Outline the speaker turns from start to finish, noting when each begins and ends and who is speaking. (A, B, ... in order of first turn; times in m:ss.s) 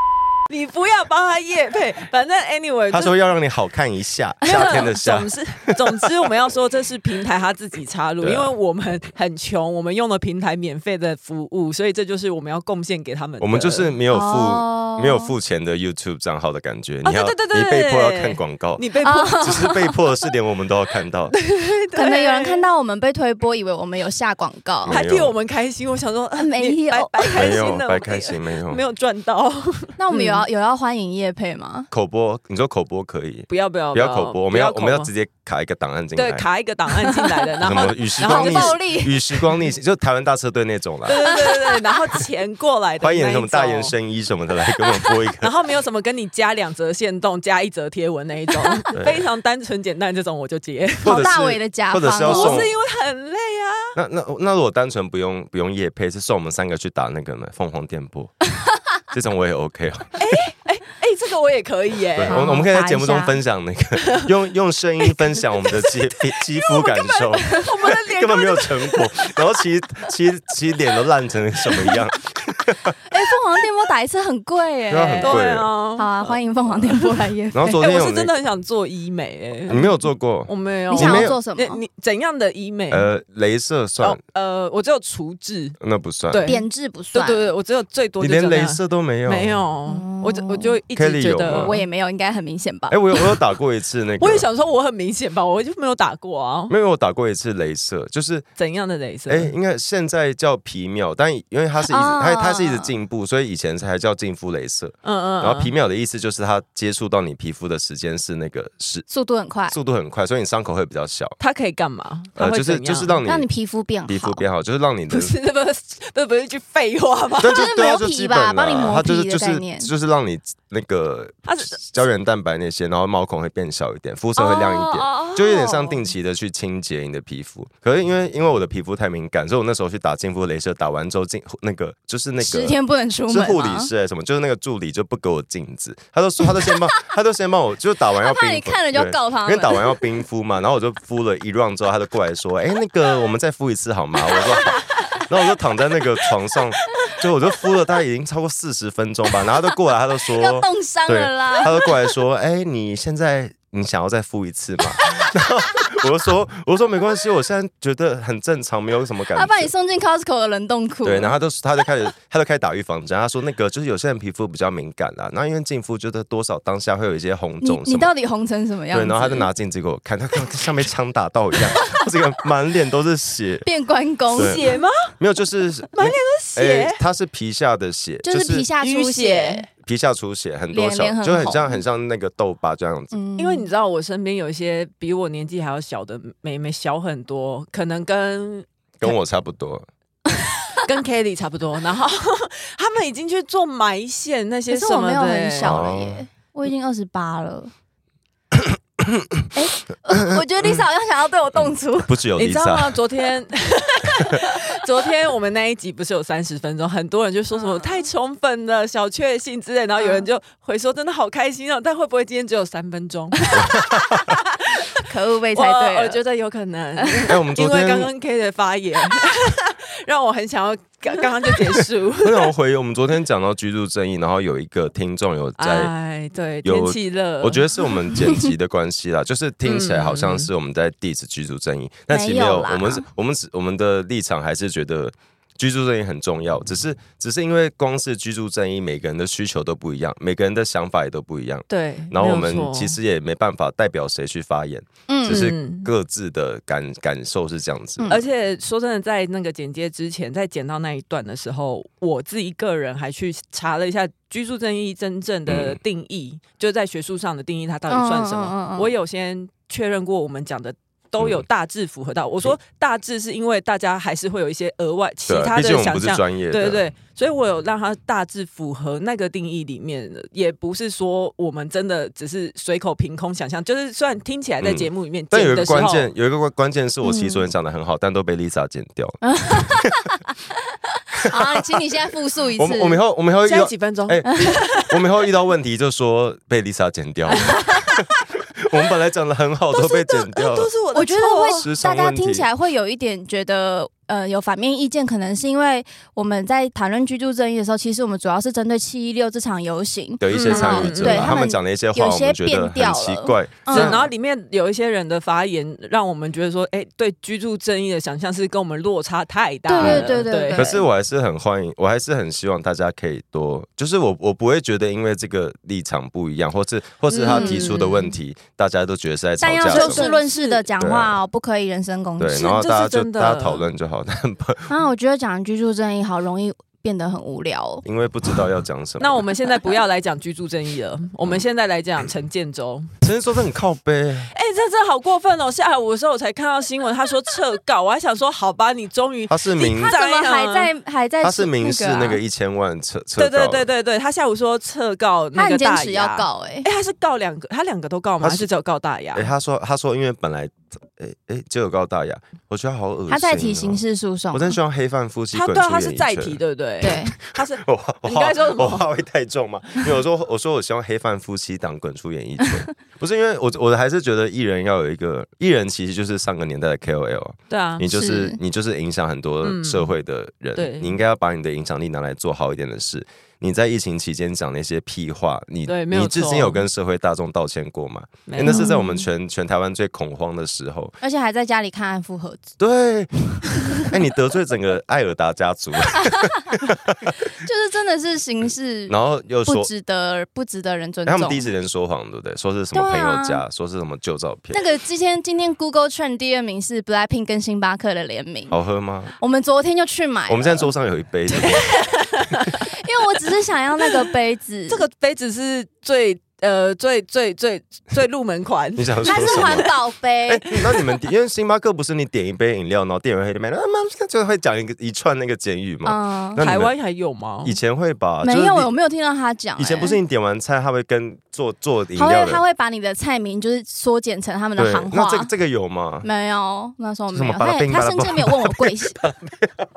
0:00.5-0:03.2 A
0:02.9-0:06.1 B
0:04.4-0:14.0 A
0:08.2-0:08.5 B
0:13.4-0:21.3 B
0:14.1-0:15.3 C
0:17.0-0:19.7 A
0:19.0-0:19.9 C
0:21.3-0:22.7 A
0:22.0-0:25.0 C
0:24.8-0:25.3 B
0:24.9-0:30.5 A
0:26.4-0:27.5 C
0:27.3-0:28.8 B
0:30.0-0:31.9 C
0:31.9-0:36.5 B
0:33.5-0:35.1 A
0:36.2-0:38.8 A
0:37.6-0:41.2 B
0:38.2-0:39.2 C
0:41.1-0:44.0 A
0:41.1-0:41.9 C
0:43.0-0:45.5 B
0:45.4-0:51.2 A
0:48.9-0:49.3 B
0:51.0-0:52.7 B
0:51.1-0:52.6 C
0:52.2-0:54.0 A
0:54.0-0:58.4 B
0:59.1-1:00.1 B
1:00.2-1:02.4 A
1:02.2-1:13.0 B
1:02.2-1:03.4 C
1:06.8-1:09.1 A
1:13.1-1:15.4 C
1:14.9-1:15.7 B
1:15.2-1:17.2 A
1:16.0-1:17.8 C
1:17.5-1:18.3 B
1:17.8-1:23.1 A
1:19.7-1:21.4 B
1:20.9-1:21.8 C
1:22.9-1:24.2 B
1:24.0-1:25.8 A
1:25.8-1:26.5 B
1:26.3-1:31.8 A
1:26.5-1:27.5 C
1:28.2-1:29.6 B
1:29.9-1:30.8 C
1:30.9-1:31.8 B
1:31.6-1:33.0 C
1:32.9-1:34.5 B
1:34.2-1:36.7 A
1:36.7-1:38.4 B
1:38.6-1:39.5 A
1:39.3-1:49.1 B
1:41.8-1:42.9 C
1:45.0-1:45.7 A
1:49.1-1:49.8 C
1:49.7-1:51.4 B
1:51.4-1:53.2 A
1:52.4-1:53.5 B
1:53.2-1:54.4 C
1:54.1-1:55.3 B
1:55.1-1:57.7 A
1:57.4-2:39.7 B
1:57.5-1:59.9 C
2:01.5-2:02.1 A
2:04.4-2:06.0 C
2:12.4-2:13.9 C
2:16.7-2:17.0 C
2:18.2-2:20.0 C
2:30.3-2:31.9 C
2:39.3-2:41.4 C
2:41.0-2:48.1 B
2:47.6-2:49.5 C
2:48.9-2:53.7 B
2:53.6-2:54.6 C
2:54.3-2:55.1 A
2:54.4-2:58.7 B
2:55.9-2:57.0 A
2:58.2-2:59.7 C
2:58.8-2:59.7 A
2:59.8-3:03.2 B
3:00.7-3:01.8 C
3:03.1-3:03.7 C
3:03.4-3:08.7 A
3:09.0-3:09.9 B
3:10.8-3:15.8 A
3:14.7-3:17.7 C
3:15.6-3:16.2 B
3:18.5-3:19.2 B
3:19.5-3:22.2 C
3:20.1-3:20.8 B
3:21.6-3:23.0 B
3:22.4-3:42.5 A
3:27.6-3:28.1 C
3:30.0-3:30.3 C
3:33.5-3:34.3 B
3:35.0-3:36.2 C
3:37.0-3:37.3 C
3:37.3-3:38.1 B
3:42.2-3:45.9 B
3:45.6-3:47.7 A
3:46.6-4:08.1 B
3:49.6-3:50.5 A
3:52.1-3:53.0 C
4:01.7-4:03.0 A
4:05.1-4:05.5 C
4:05.3-4:05.9 A
4:08.1-4:36.1 A
4:15.5-4:15.8 B
4:17.9-4:18.9 C
4:21.2-4:21.4 B
4:25.3-4:26.9 B
4:34.6-4:39.9 B
4:37.0-4:37.5 C
4:39.2-4:40.4 C
4:41.1-4:43.0 C
4:41.2-4:41.8 B
4:42.6-4:48.0 B
4:43.4-4:45.0 A
4:44.2-4:44.6 C
4:47.3-4:48.0 A
4:48.6-4:50.7 B
4:49.7-4:51.7 A
4:51.0-5:04.0 C
4:51.5-4:52.5 B
5:00.2-5:04.1 B
5:00.3-5:01.4 A
5:03.7-5:10.7 A
5:09.7-5:10.8 C
5:09.8-5:20.1 B
5:17.1-5:18.2 A
5:17.2-5:17.7 C
5:19.4-5:22.6 C
5:19.7-5:20.7 A
5:20.8-5:21.2 B
5:22.2-5:24.7 B
5:22.4-5:23.7 A
5:24.7-5:27.8 C
5:27.8-5:29.2 B
5:29.0-5:32.9 A
5:33.0-5:34.3 B
5:34.3-5:40.7 A
5:39.3-5:39.9 B
5:39.6-5:42.2 C
5:41.2-5:43.7 B
5:43.2-5:49.3 A
5:45.4-5:46.7 C
5:48.2-5:48.5 B
5:49.1-6:21.0 B
5:53.1-5:54.6 C
5:55.3-5:58.9 A
5:56.8-5:57.2 C
6:07.5-6:07.9 A
6:07.9-6:08.4 C
6:09.4-6:09.9 A
6:10.6-6:11.0 A
6:15.7-6:16.7 A
6:18.3-6:18.7 A
6:18.4-6:19.0 C
6:21.0-6:22.4 C
6:22.6-6:27.1 B
6:26.0-6:26.3 C
6:27.2-6:31.5 C
6:28.9-6:29.7 B
6:31.1-6:34.6 B
6:32.7-6:33.4 C
6:34.5-6:38.6 C
6:38.5-6:39.2 B
6:39.2-6:40.7 C
6:40.3-6:41.8 B
6:41.4-6:42.5 A
6:42.5-6:44.8 C
6:44.7-6:49.7 A
6:48.8-6:49.7 B
6:49.0-6:50.5 C
6:50.3-6:56.7 B
6:55.8-6:56.4 C
6:56.4-6:57.6 A
6:57.4-6:58.7 B
6:58.2-7:00.0 C
6:59.6-7:02.4 B
7:02.0-7:05.3 C
7:04.6-7:06.1 B
7:06.0-7:09.0 C
7:07.1-7:09.6 B